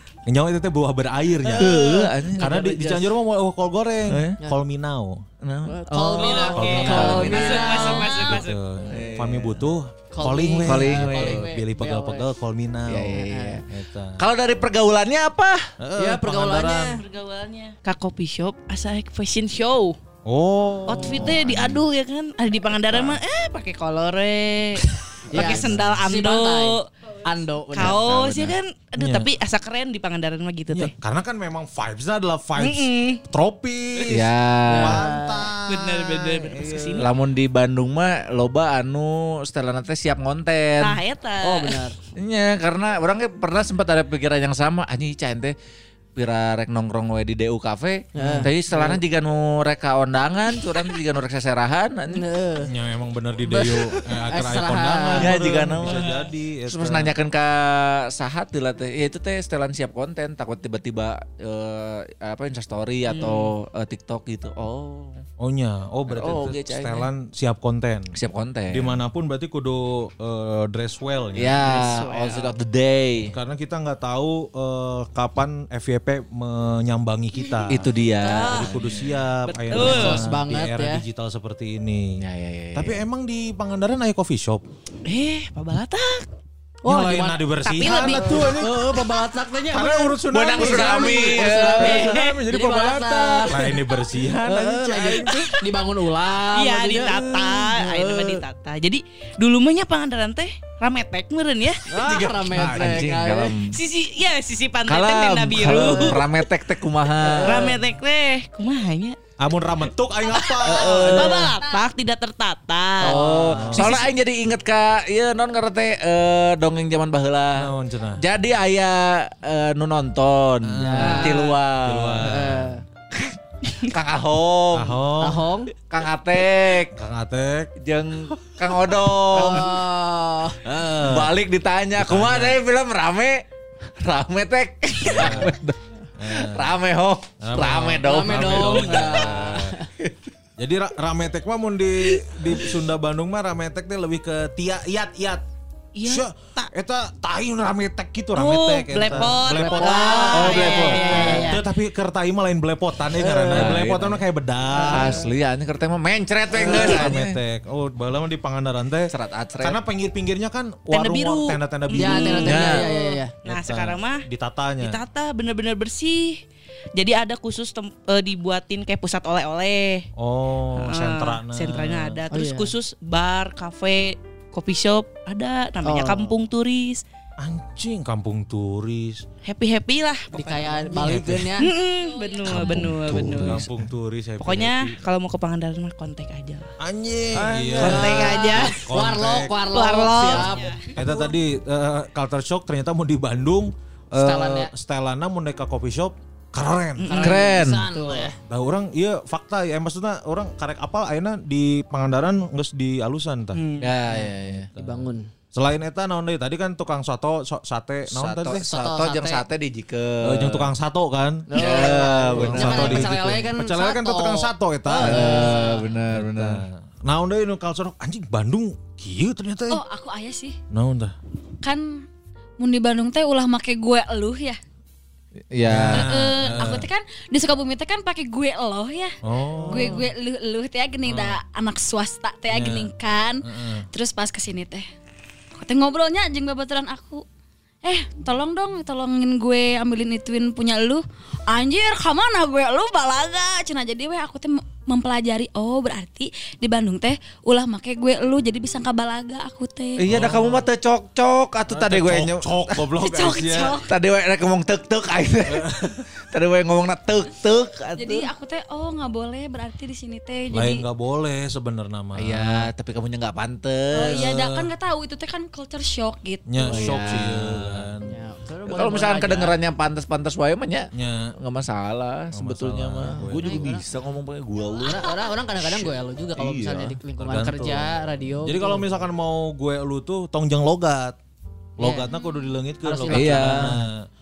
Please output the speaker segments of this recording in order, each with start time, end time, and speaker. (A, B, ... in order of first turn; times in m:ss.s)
0:00.3-0:05.2 A
0:01.5-0:02.8 B
0:02.4-0:03.0 C
0:04.1-0:04.4 B
0:05.4-0:07.9 B
0:05.7-0:08.4 C
0:06.2-0:08.6 D
0:06.6-0:14.2 A
0:08.9-0:09.7 B
0:10.1-0:12.2 C
0:10.6-0:11.4 B
0:12.9-0:13.6 B
0:13.3-0:13.6 C
0:14.2-0:15.6 B
0:15.8-0:17.0 A
0:16.0-0:17.0 C
0:17.0-0:20.0 D
0:20.2-0:21.8 A
0:20.9-0:26.9 D
0:21.0-0:21.6 B
0:25.3-0:28.0 C
0:25.4-0:26.0 A
0:27.7-0:28.6 B
0:27.8-0:30.9 D
0:29.0-0:29.3 A
0:30.7-0:37.0 A
0:32.6-0:33.2 D
0:34.1-0:35.0 B
0:34.7-0:35.5 C
0:35.7-0:37.1 D
0:37.0-0:41.0 B
0:40.8-0:41.9 D
0:41.4-0:42.0 C
0:42.2-0:45.6 B
0:46.2-0:52.2 B
0:48.1-0:49.0 C
0:52.1-0:52.7 C
0:52.7-0:57.1 A
0:53.5-0:55.3 C
0:55.1-0:56.1 B
0:56.7-1:05.2 B
1:03.1-1:03.5 D
1:05.4-1:08.1 A
1:06.1-1:07.1 B
1:08.1-1:09.0 B
1:08.7-1:11.6 A
1:11.4-1:13.3 B
1:11.6-1:12.5 D
1:13.3-1:17.9 A
1:17.4-1:18.8 D
1:17.7-1:19.3 B
1:18.5-1:22.1 A
1:19.4-1:20.2 D
1:19.7-1:21.0 C
1:22.2-1:23.0 B
1:22.8-1:24.6 A
1:25.0-1:26.2 D
1:26.8-1:33.8 C
1:26.9-1:28.9 A
1:27.6-1:28.6 D
1:29.7-1:35.5 A
1:30.3-1:32.2 B
1:34.4-1:35.3 B
1:34.5-1:37.7 C
1:36.5-1:41.8 D
1:37.8-1:38.4 B
1:41.9-1:43.5 C
1:41.9-1:43.1 A
1:42.5-1:43.8 B
1:43.7-1:46.5 D
1:44.9-1:47.8 B
1:47.2-1:47.7 C
1:47.4-1:49.2 D
1:49.4-1:51.6 A
1:50.2-1:53.2 D
1:50.6-1:51.5 B
1:51.6-1:51.8 E
1:53.0-2:02.5 B
1:53.0-1:53.8 C
1:53.1-1:53.9 A
1:53.7-1:54.1 D
1:57.6-1:58.2 A
2:00.6-2:02.7 A
2:00.8-2:01.4 C
2:02.2-2:02.8 C
2:03.1-2:05.0 B
2:04.7-2:05.4 A
2:05.2-2:05.7 C
2:05.9-2:07.0 B
2:07.0-2:07.7 A
2:07.8-2:09.8 B
2:09.3-2:10.6 C
2:10.6-2:11.3 A
2:10.8-2:19.5 B
2:12.0-2:12.6 A
2:15.0-2:15.6 A
2:16.2-2:16.7 A
2:17.4-2:19.7 A
2:18.0-2:19.9 C
2:20.6-2:25.4 A
2:26.0-2:26.7 D
2:26.0-2:35.2 A
2:28.3-2:31.6 D
2:29.1-2:31.6 C
2:30.3-2:31.5 B
2:33.2-2:34.2 B
2:34.7-2:35.3 C
2:34.9-2:37.4 B
2:36.5-2:42.6 A
2:36.7-2:37.0 D
2:39.1-2:39.8 B
2:40.9-2:44.2 D
2:42.0-2:43.3 C
2:42.4-2:42.8 B
2:43.4-2:45.0 A
2:44.8-2:46.4 D
2:47.0-2:50.0 D
2:50.2-2:52.2 A
2:50.8-2:57.0 D
2:52.3-2:52.7 C
2:55.8-2:56.3 C
2:57.4-2:59.2 A
2:59.4-3:01.0 D
3:00.3-3:01.7 C
3:00.9-3:01.5 A
3:01.6-3:03.6 D
3:01.8-3:02.6 E
3:02.4-3:03.9 B
3:02.6-3:05.0 A
3:04.4-3:06.7 D
3:06.8-3:09.5 A
3:07.4-3:08.2 B
3:07.6-3:10.8 C
3:07.8-3:08.8 D
3:09.7-3:11.0 D
3:10.2-3:17.2 A
3:14.1-3:14.7 C
3:17.0-3:17.4 D
3:17.1-3:18.3 C
3:17.1-3:18.3 B
3:18.5-3:23.6 A
3:23.5-3:23.9 D
3:23.8-3:24.7 B
3:24.1-3:25.3 C
3:24.7-3:28.6 A
3:28.1-3:30.7 B
3:28.6-3:29.4 C
3:30.2-3:39.8 A
3:31.5-3:35.8 C
3:31.6-3:33.1 B
3:35.0-3:36.6 B
3:39.7-3:40.6 E
3:40.7-3:41.1 A
3:41.6-3:42.0 E
3:42.6-3:44.6 E
3:45.5-3:46.7 B
3:45.7-3:46.9 A
3:45.9-3:49.2 E
3:49.2-3:50.1 A
3:49.7-3:54.9 E
3:51.0-3:51.4 A
3:52.5-3:52.9 A
3:53.4-3:53.9 A
3:55.6-3:57.2 E
3:57.8-4:10.2 E
4:10.0-4:12.9 B
4:10.1-4:10.7 A
4:11.7-4:13.8 A
4:13.0-4:13.9 E
4:13.8-4:15.7 B
4:15.4-4:16.0 A
4:16.3-4:18.3 B
4:18.0-4:20.8 E
4:20.5-4:22.7 A
4:22.2-4:24.3 B
4:23.9-4:27.1 E
4:24.1-4:24.7 A
4:26.5-4:28.1 A
4:26.6-4:27.9 B
4:28.0-4:29.6 C
4:28.7-4:37.0 B
4:30.9-4:31.3 A
4:32.3-4:33.8 A
4:33.3-4:33.8 C
4:34.8-4:38.8 C
4:37.2-4:37.9 A
4:38.4-4:41.2 A
4:41.8-4:44.0 A
4:41.8-4:42.1 C
4:42.1-4:42.5 E
4:42.8-4:43.7 C
4:43.1-4:43.7 B